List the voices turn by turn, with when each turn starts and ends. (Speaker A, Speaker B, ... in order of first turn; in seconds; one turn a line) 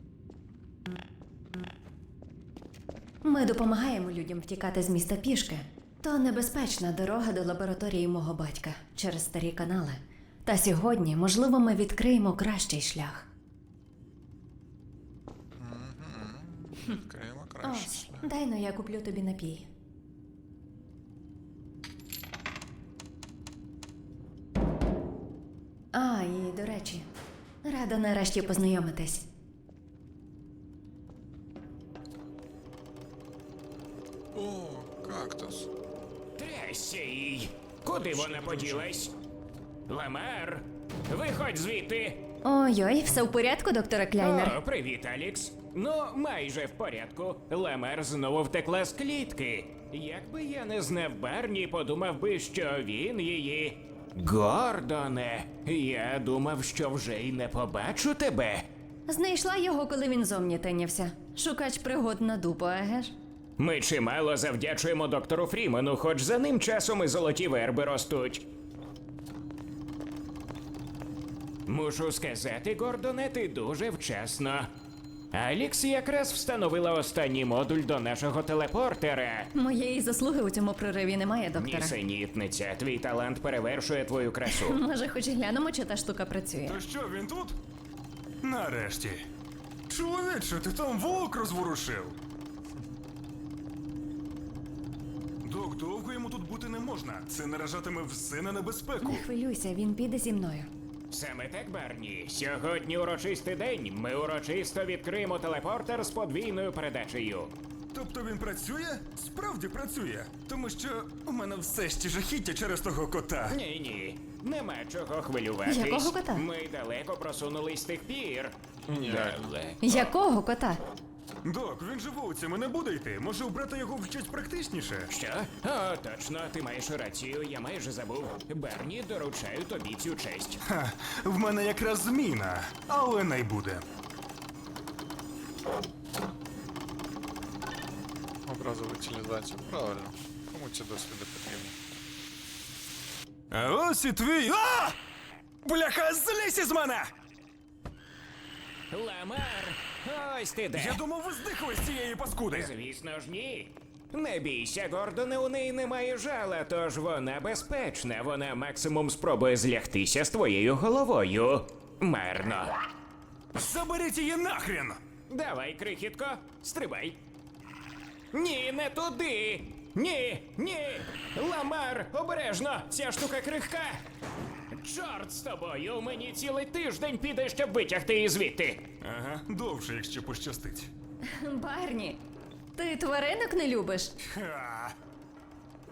Speaker A: 3.2-13.3
Speaker B: 15.6-18.3
Speaker A: 17.6-19.7
Speaker A: 25.9-27.1
Speaker A: 27.6-29.3
Speaker B: 34.3-35.7
Speaker C: 36.4-39.1
Speaker B: 37.9-38.9
Speaker C: 39.9-42.2
Speaker A: 42.4-44.6
Speaker C: 44.2-58.6
Speaker A: 59.1-63.1
Speaker C: 63.6-68.4
Speaker C: 71.7-74.7
Speaker C: 75.3-79.5
Speaker A: 79.5-81.9
Speaker C: 81.5-84.8
Speaker A: 84.5-86.8
Speaker D: 86.6-87.6
Speaker D: 88.4-89.2
Speaker D: 89.9-92.2
Speaker D: 95.4-99.3
Speaker A: 99.0-100.7
Speaker C: 101.1-107.5
Speaker D: 107.9-113.5
Speaker C: 113.5-119.8
Speaker A: 115.7-116.4
Speaker B: 118.8-119.5
Speaker A: 119.8-120.8
Speaker D: 121.4-125.1
Speaker C: 125.1-130.6
Speaker D: 130.7-133.8
Speaker B: 138.4-141.8
Speaker D: 143.5-145.0
Speaker D: 145.6-147.1
Speaker C: 148.9-151.0
Speaker D: 150.7-152.7
Speaker C: 152.5-162.8
Speaker D: 163.5-165.0
Speaker C: 165.3-167.2
Speaker C: 168.3-174.0
Speaker C: 174.7-178.9
Speaker D: 179.0-180.9
Speaker A: 181.3-182.2
Speaker A: 182.8-184.1
Speaker D: 184.2-184.9